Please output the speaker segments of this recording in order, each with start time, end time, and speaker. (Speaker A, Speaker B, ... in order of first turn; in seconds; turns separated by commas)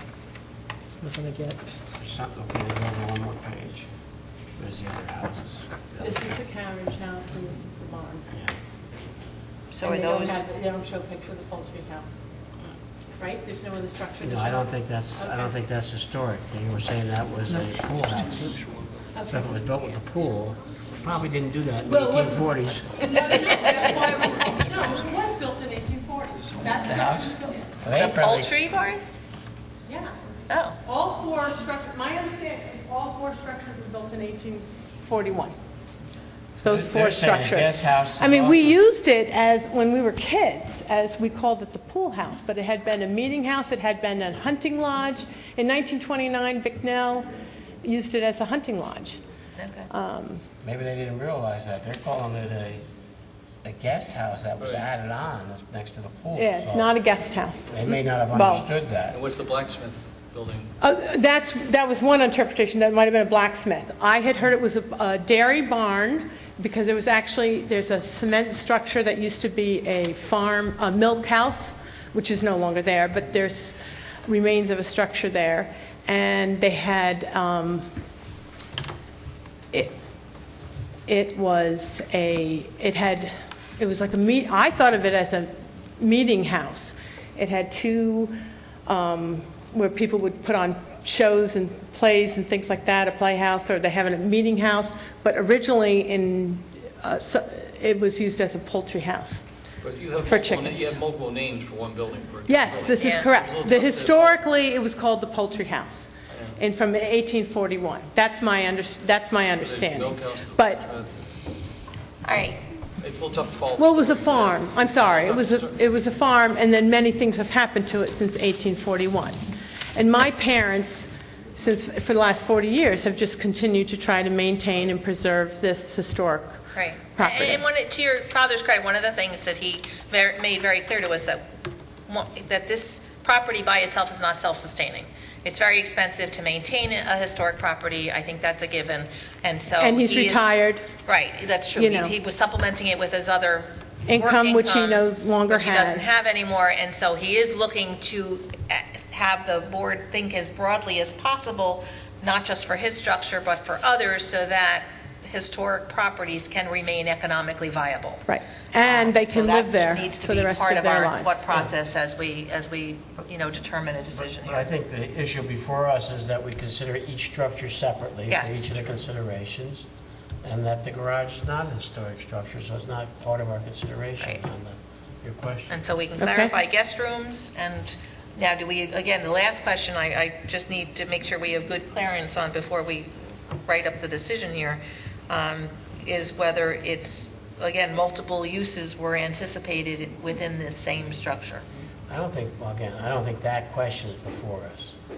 Speaker A: 2.0-3.9, Speaker A: 4.6-6.2, Speaker B: 6.0-8.3, Speaker C: 9.7-10.4, Speaker B: 9.8-12.2, Speaker B: 13.2-15.5, Speaker A: 14.2-18.6, Speaker B: 19.1-19.5, Speaker A: 19.2-23.1, Speaker B: 21.8-27.7, Speaker A: 26.7-28.5, Speaker C: 27.9-29.0, Speaker B: 29.9-30.1, Speaker C: 30.5-30.8, Speaker B: 30.8-35.5, Speaker A: 36.6-38.8, Speaker B: 36.6-47.3, Speaker B: 47.8-49.2, Speaker C: 49.6-49.9, Speaker B: 49.9-50.4, Speaker A: 50.6-52.9, Speaker A: 53.6-56.9, Speaker D: 54.6-54.9, Speaker B: 56.3-57.7, Speaker A: 57.7-59.2, Speaker B: 58.3-58.7, Speaker D: 59.1-60.7, Speaker B: 60.8-77.9, Speaker B: 81.1-99.4, Speaker D: 99.8-104.4, Speaker B: 100.2-101.0, Speaker B: 102.5-110.8, Speaker C: 103.0-103.3, Speaker D: 106.3-106.6, Speaker D: 109.6-111.1, Speaker C: 112.2-112.6, Speaker D: 113.0-115.8, Speaker B: 113.8-119.4, Speaker B: 119.9-127.6, Speaker C: 126.7-131.4, Speaker C: 132.1-140.4, Speaker B: 139.8-140.9, Speaker C: 141.1-158.2, Speaker B: 141.7-142.1, Speaker B: 144.1-146.2, Speaker B: 158.3-161.7, Speaker C: 158.8-164.7, Speaker A: 164.2-169.8, Speaker C: 168.3-168.7, Speaker A: 170.4-175.8, Speaker C: 175.7-191.6, Speaker B: 176.2-176.5, Speaker A: 192.1-194.9